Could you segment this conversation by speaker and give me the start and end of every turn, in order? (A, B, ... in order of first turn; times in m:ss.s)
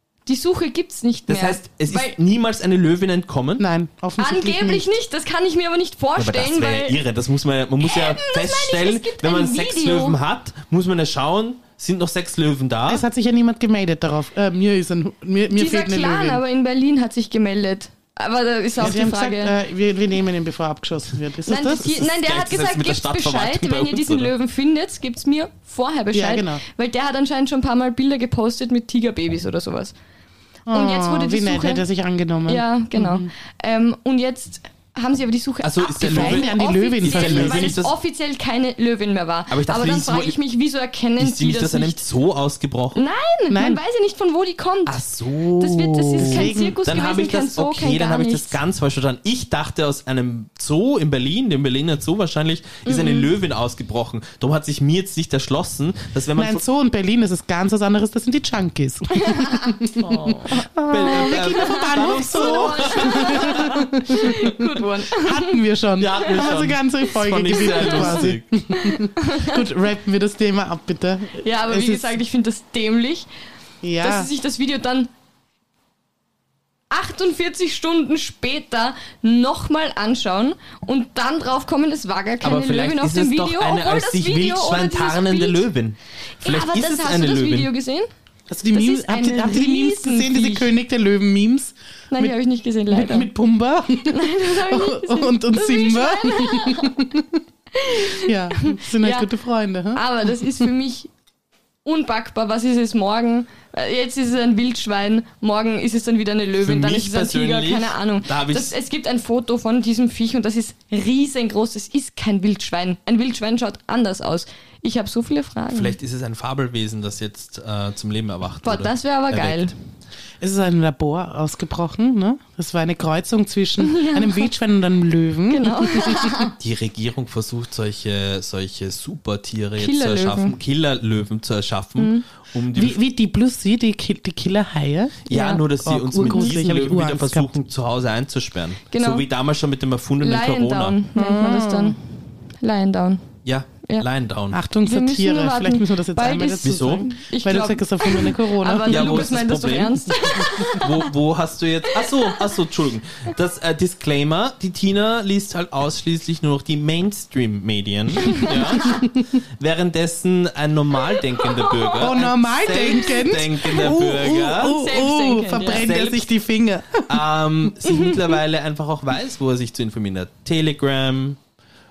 0:00.3-0:02.2 A
0:01.3-0:03.7 B
0:03.6-0:04.9 C
0:04.2-0:07.0 A
0:06.2-0:13.0 B
0:07.8-0:10.2 A
0:12.9-0:16.4 C
0:15.5-0:19.6 A
0:18.8-0:22.0 C
0:21.4-0:29.9 A
0:21.9-0:24.3 B
0:26.1-0:26.6 C
0:30.7-0:33.3 C
0:30.7-0:31.8 A
0:32.5-0:42.0 A
0:35.6-0:38.0 B
0:36.0-0:37.8 C
0:39.5-0:40.4 B
0:41.2-0:43.0 B
0:43.0-0:45.1 A
0:43.5-0:43.8 C
0:44.9-0:56.6 B
0:45.6-0:48.6 A
0:46.2-0:46.8 C
0:52.9-0:53.3 A
0:56.4-1:12.2 C
0:59.1-1:05.6 A
1:00.9-1:03.8 B
1:06.0-1:08.5 B
1:07.6-1:09.6 A
1:11.4-1:13.3 A
1:13.8-1:14.3 C
1:14.0-1:15.1 A
1:16.9-1:25.7 A
1:22.4-1:27.7 B
1:26.4-1:28.1 A
1:28.5-1:32.4 C
1:28.7-1:30.7 A
1:32.1-1:33.3 A
1:32.9-1:37.4 C
1:34.1-1:37.0 A
1:37.7-1:39.3 A
1:38.1-1:40.0 C
1:39.9-1:41.1 A
1:41.8-1:56.0 A
1:46.6-1:48.7 B
1:55.7-1:59.7 B
1:58.6-1:59.7 A
2:00.4-2:06.5 C
2:03.8-2:04.5 A
2:05.5-2:06.6 A
2:06.6-2:13.0 B
2:09.8-2:10.6 A
2:12.0-2:12.2 A
2:12.7-2:15.3 C
2:15.3-2:21.0 B
2:15.3-2:15.6 A
2:15.8-2:17.5 C
2:16.2-2:16.6 A
2:18.9-2:19.2 A
2:20.2-2:22.0 A
2:21.2-2:22.0 C
2:22.6-2:23.3 A
2:23.4-2:24.6 B
2:24.5-2:29.4 C
2:24.8-2:31.0 A
2:26.6-2:27.1 B
2:28.9-2:44.9 B
2:38.2-2:39.0 A
2:41.3-2:42.0 A
2:42.0-2:47.2 C
2:44.6-2:45.9 A
2:45.7-2:46.3 B
2:47.1-2:51.4 B
2:47.9-2:48.2 A